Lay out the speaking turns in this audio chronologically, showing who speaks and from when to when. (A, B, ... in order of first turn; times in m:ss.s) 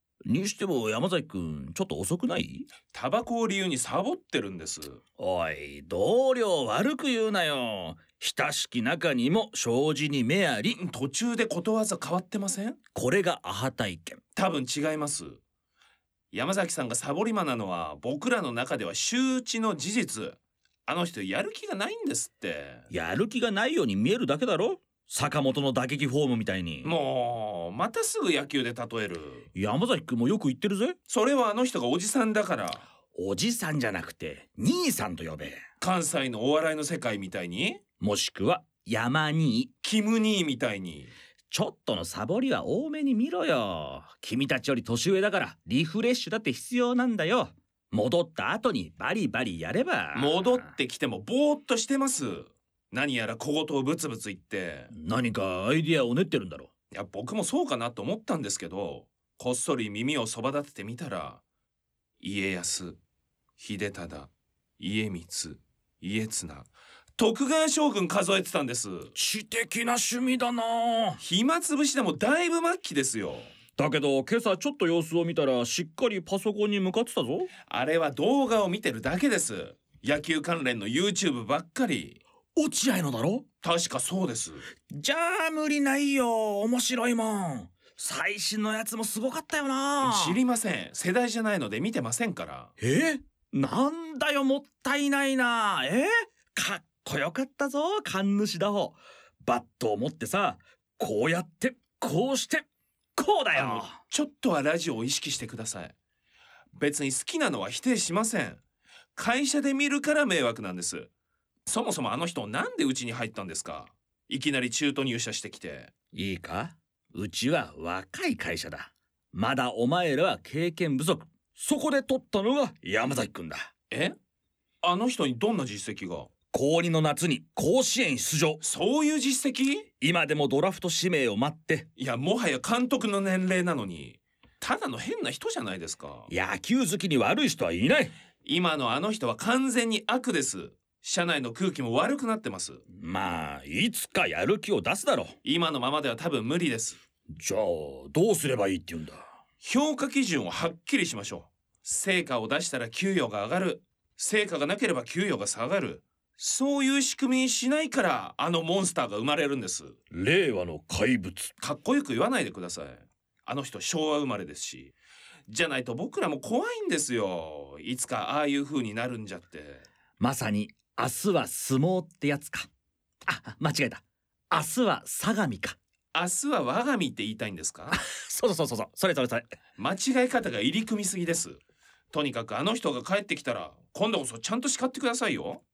0:00.2-0:02.7 A
0:02.9-0:05.0 B
0:05.2-0:10.8 A
0:10.7-0:12.8 B
0:12.9-0:14.2 A
0:14.4-0:15.4 B
0:16.3-0:22.9 B
0:22.9-0:26.9 A
0:26.8-0:29.5 B
0:29.5-0:31.0 A
0:31.1-0:32.8 B
0:33.1-0:35.6 A
0:35.8-0:37.8 B
0:38.0-0:39.7 A
0:39.8-0:41.1 B
0:41.5-0:50.7 A
0:50.1-0:54.9 B
0:54.9-0:56.7 A
0:56.9-1:01.4 B
1:02.2-1:03.0 B
1:03.6-1:09.1 B
1:09.2-1:11.2 A
1:11.2-1:13.5 B
1:13.7-1:17.5 A
1:17.6-1:22.2 B
1:22.6-1:23.4 A
1:23.6-1:24.6 B
1:24.9-1:30.4 A
1:30.0-1:32.7 B
1:32.8-1:42.6 A
1:43.2-1:44.0 A
1:43.5-1:45.9 B
1:46.7-1:48.6 B
1:49.2-1:51.1 B
1:51.7-1:55.9 B
1:56.1-2:03.7 A
2:03.9-2:04.1 B
2:04.8-2:06.3 B
2:06.5-2:08.6 A
2:08.6-2:09.9 B
2:10.0-2:11.9 A
2:12.0-2:16.3 B
2:16.3-2:18.1 A
2:18.4-2:22.8 B
2:22.9-2:25.3 A
2:25.4-2:27.0 B
2:27.3-2:29.2 A
2:29.6-2:40.0 B
2:40.1-2:41.5 A
2:41.6-2:44.9 B
2:45.5-2:49.8 B
2:50.2-2:52.7 A
2:53.3-2:55.8 A
2:56.1-2:58.0 B
2:57.9-2:59.5 A
2:59.8-3:01.6 B
3:02.1-3:05.6 B